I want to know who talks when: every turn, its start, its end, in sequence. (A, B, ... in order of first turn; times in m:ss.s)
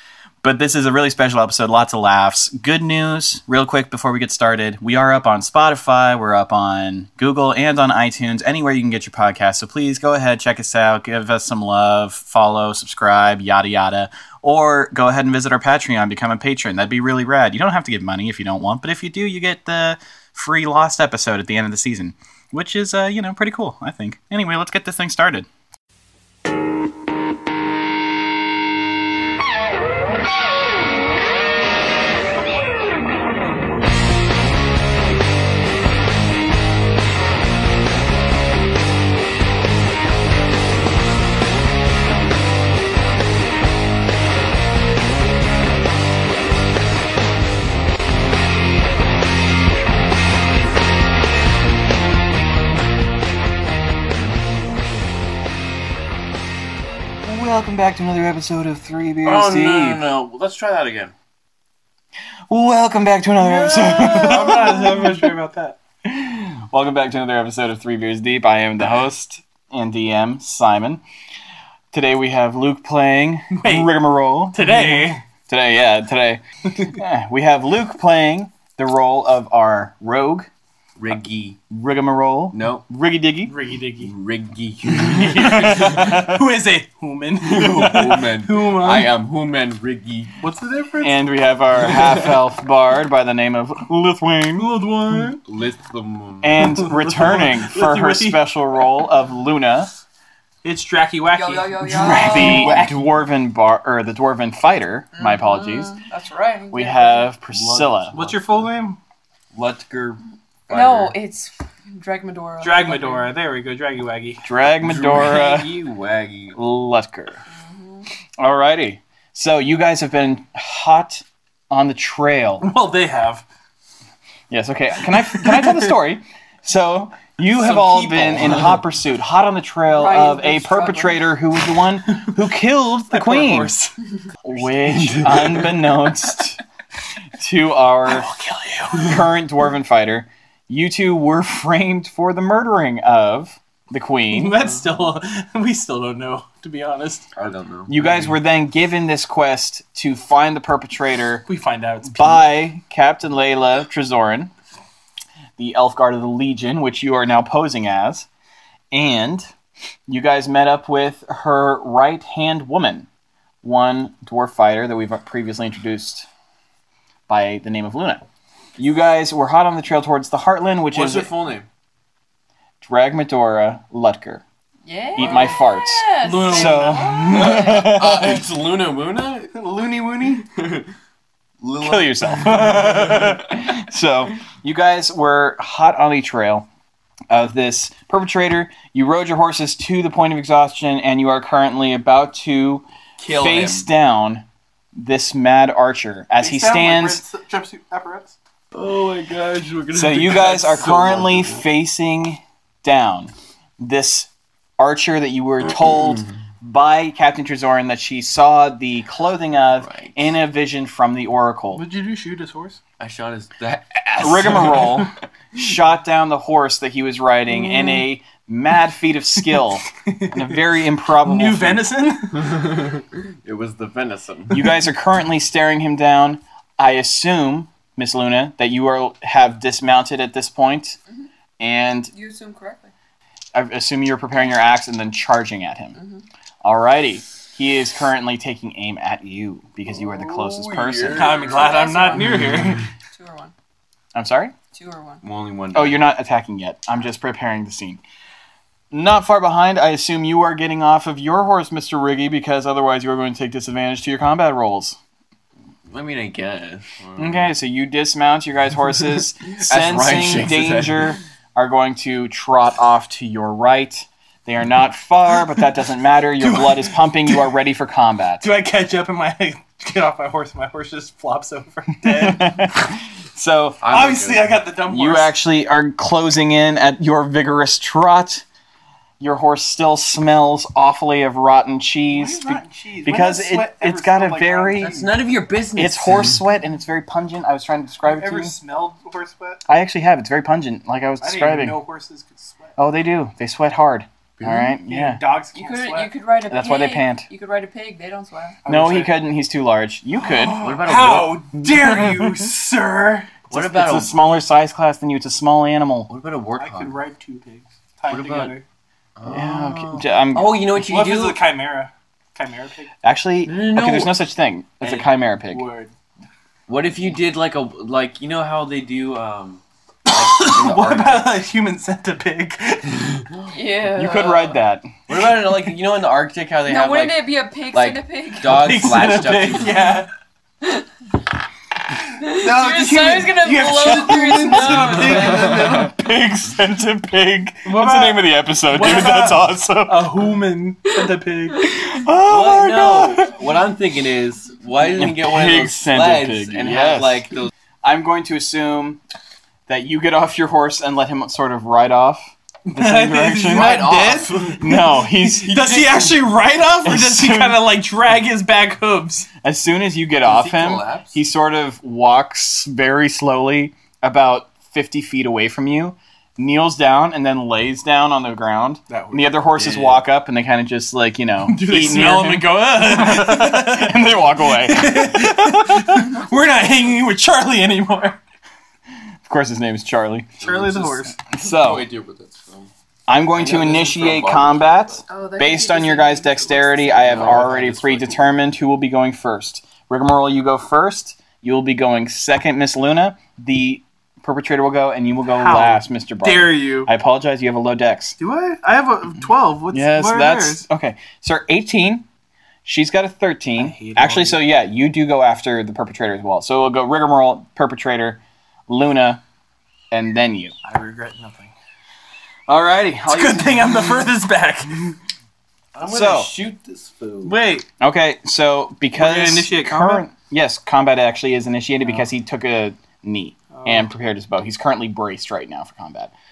0:00.4-0:25.5 A
0:57.2-1:00.1 A
0:59.2-1:01.1 B
1:02.5-1:05.2 A
1:03.4-1:05.8 C
1:06.0-1:11.0 A
1:11.9-1:20.5 A
1:13.6-1:13.9 C
1:14.5-1:15.2 C
1:21.0-1:21.6 B
1:21.7-1:23.5 A
1:22.5-1:22.8 B
1:23.5-1:24.1 C
1:24.0-1:26.2 B
1:25.1-1:26.3 A
1:25.4-1:29.1 C
1:27.4-1:30.3 B
1:30.4-1:31.2 C
1:31.0-1:34.7 A
1:34.6-1:35.4 C
1:35.4-1:36.6 B
1:36.4-1:39.9 A
1:36.8-1:38.4 C
1:40.6-1:42.0 C
1:41.3-1:42.9 D
1:41.9-1:46.0 A
1:42.2-1:43.0 B
1:45.2-1:47.3 D
1:46.7-1:48.2 A
1:47.5-1:48.7 B
1:48.1-1:49.0 C
1:49.5-1:51.2 B
1:50.7-1:53.3 D
1:52.6-1:54.4 C
1:54.4-1:55.7 A
1:54.8-1:56.6 B
1:56.6-1:57.4 A
1:57.5-1:58.1 D
1:58.4-2:02.7 A
2:02.6-2:03.4 C
2:04.5-2:13.7 A
2:05.3-2:05.8 C
2:07.5-2:08.8 B
2:09.9-2:11.2 D
2:13.1-2:14.0 C
2:14.4-2:16.6 A
2:14.9-2:15.6 B
2:17.4-2:18.3 A
2:18.1-2:19.2 C
2:18.9-2:24.6 A
2:24.3-2:27.3 C
2:27.4-2:28.4 B
2:27.9-2:31.4 A
2:31.5-2:32.5 C
2:32.0-2:34.5 A
2:35.6-2:38.3 A
2:38.9-2:39.5 A
2:40.1-2:43.1 A
2:43.6-2:46.3 A
2:47.3-2:48.2 A
2:48.8-2:51.3 A
2:50.9-2:51.7 B
2:52.8-2:54.4 A
2:54.8-2:58.0 D
2:55.2-2:58.4 A
2:56.2-2:57.6 C
2:57.3-2:59.5 B
2:59.5-3:00.5 C
3:00.5-3:00.9 B
3:01.6-3:03.3 B
3:01.8-3:06.7 A
3:02.5-3:03.4 C
3:07.3-3:17.2 A
3:13.2-3:13.9 B
3:16.4-3:18.4 C
3:18.7-3:21.7 B
3:19.9-3:31.8 A
3:25.8-3:26.3 B
3:29.8-3:30.3 B
3:31.7-3:32.8 C
3:33.0-3:35.1 B
3:34.2-3:41.9 A
3:37.6-3:38.0 D
3:40.0-3:40.6 C
3:41.2-3:42.5 C
3:42.4-3:44.8 B
3:44.5-3:51.0 A
3:51.6-3:52.1 A
3:52.1-3:52.9 D
3:53.5-3:56.0 A
3:56.0-3:56.2 D
3:56.6-4:01.4 A
3:59.9-4:01.8 B
4:01.1-4:02.8 C
4:01.4-4:03.5 D
4:04.2-4:04.5 A
4:04.7-4:05.2 D
4:05.2-4:06.0 B
4:05.7-4:08.0 A
4:08.9-4:15.0 A
4:15.9-4:17.5 B
4:17.2-4:28.5 A
4:19.6-4:21.2 B
4:26.4-4:27.5 C
4:28.4-4:32.7 C
4:32.1-4:33.8 A
4:33.8-4:34.6 B
4:33.9-4:35.3 C
4:34.9-4:38.4 A
4:39.2-4:45.0 A
4:42.1-4:45.1 C
4:44.8-4:46.4 B
4:45.8-4:48.6 A
4:48.0-4:49.6 C
4:49.7-4:51.8 A
4:51.2-4:52.8 C
4:52.8-4:55.2 A
4:54.4-4:54.7 B
4:54.8-4:56.1 C
4:55.6-4:58.6 D
4:56.5-4:57.3 A
4:58.6-4:59.2 C
4:58.7-5:00.6 A
5:00.2-5:03.4 C
5:00.6-5:01.4 B
5:01.6-5:02.4 A
5:03.5-5:04.1 B
5:03.5-5:06.1 A
5:06.1-5:07.0 B
5:06.6-5:08.6 C
5:08.1-5:08.5 B
5:09.2-5:11.4 B
5:09.3-5:10.5 A
5:10.8-5:12.9 C
5:13.0-5:15.6 A
5:13.4-5:14.2 B
5:14.8-5:15.9 C
5:16.7-5:21.3 B
5:20.1-5:23.3 C
5:23.5-5:24.6 D
5:24.0-5:24.9 A
5:25.1-5:29.8 B
5:26.7-5:28.7 D
5:28.4-5:30.1 C
5:32.2-5:35.8 D
5:32.3-5:36.0 C
5:35.6-5:40.0 A
5:37.7-5:41.6 C
5:41.8-5:43.3 A
5:42.2-5:47.5 B
5:44.9-5:47.3 A
5:47.8-5:49.0 A
5:49.7-5:53.8 A
5:52.7-5:59.3 C
5:53.5-5:54.8 B
5:54.6-5:55.6 A
5:55.6-5:56.0 B
5:56.8-5:57.6 A
5:59.4-6:16.0 A
6:00.2-6:01.2 B
6:08.9-6:10.0 B
6:11.5-6:18.2 C
6:19.3-6:20.4 A
6:20.4-6:21.2 C
6:20.4-6:22.7 B
6:21.3-6:21.9 A
6:23.1-6:38.2 A
6:23.3-6:25.1 B
6:25.1-6:27.4 D
6:27.0-6:28.4 B
6:35.2-6:36.9 C
6:38.2-6:40.6 C
6:39.7-6:42.1 A
6:42.6-6:49.2 A
6:43.6-6:44.4 C
6:49.9-6:50.6 A
6:50.6-6:51.5 C
6:52.5-6:53.9 A
6:53.1-6:55.0 C
6:55.7-6:57.3 B
6:55.8-6:56.3 A
6:57.2-6:57.7 C
6:57.8-7:06.1 A
6:59.0-7:00.1 C
7:03.5-7:03.9 C